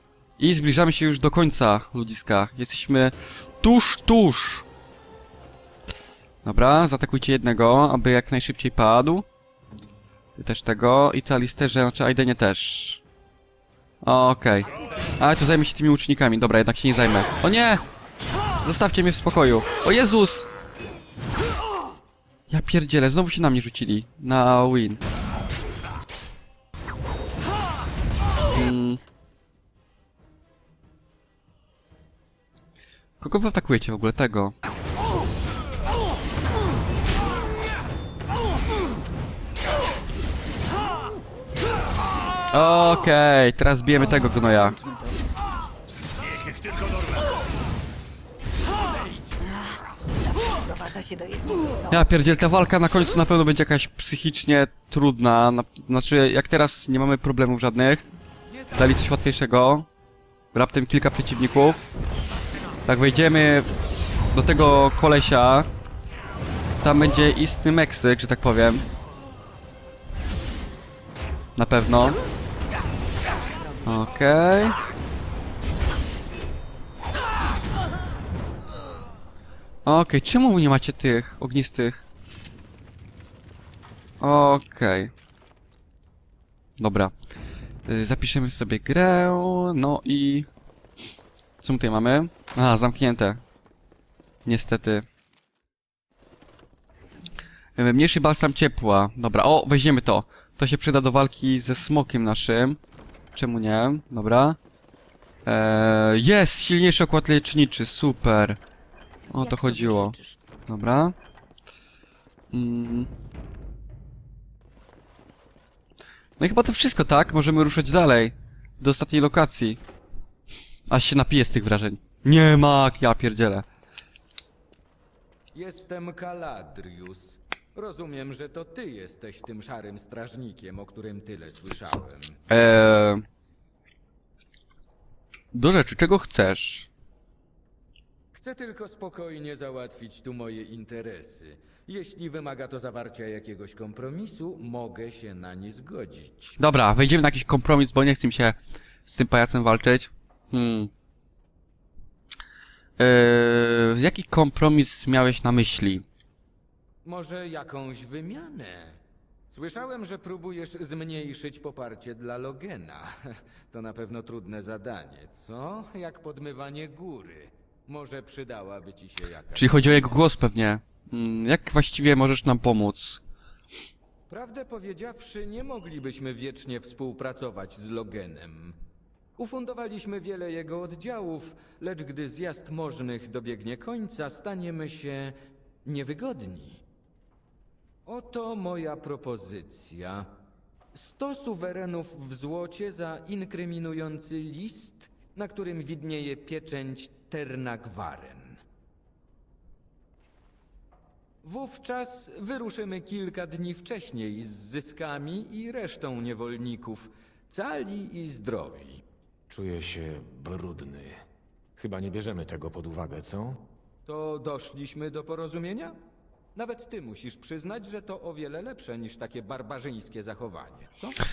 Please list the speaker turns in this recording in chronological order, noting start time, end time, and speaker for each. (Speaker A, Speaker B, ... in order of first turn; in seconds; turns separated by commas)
Speaker A: 0.4-4.7, Speaker A: 6.4-9.2, Speaker A: 10.3-13.0, Speaker A: 14.0-17.8, Speaker A: 18.6-20.5, Speaker A: 22.5-25.0, Speaker A: 28.5-29.0, Speaker A: 33.2-34.5, Speaker A: 42.5-44.8, Speaker B: 44.0-45.2, Speaker B: 49.4-52.0, Speaker A: 51.9-58.0, Speaker A: 58.7-59.9, Speaker A: 60.5-61.8, Speaker A: 62.9-63.7, Speaker A: 64.3-65.7, Speaker A: 66.8-68.8, Speaker A: 71.5-72.2, Speaker A: 73.8-74.8, Speaker A: 79.8-82.0, Speaker A: 84.2-85.1, Speaker A: 86.8-87.1, Speaker A: 87.9-90.5, Speaker A: 91.6-93.4, Speaker A: 94.4-95.0, Speaker A: 97.8-102.8, Speaker A: 103.3-104.6, Speaker A: 105.5-108.6, Speaker A: 109.3-111.1, Speaker B: 109.4-110.3, Speaker A: 112.5-113.1, Speaker A: 116.4-119.8, Speaker A: 120.9-123.6, Speaker C: 125.5-132.4, Speaker A: 132.5-133.2, Speaker A: 135.5-136.9, Speaker C: 138.3-146.6, Speaker A: 146.6-150.9, Speaker A: 153.0-156.0, Speaker C: 157.0-159.0, Speaker C: 159.5-170.1, Speaker A: 169.5-173.2, Speaker C: 174.3-178.8, Speaker C: 179.4-186.8, Speaker C: 188.1-190.3, Speaker C: 190.9-198.6, Speaker C: 201.4-209.0, Speaker D: 209.5-211.2, Speaker D: 211.8-213.6, Speaker C: 214.1-215.9, Speaker C: 216.5-221.2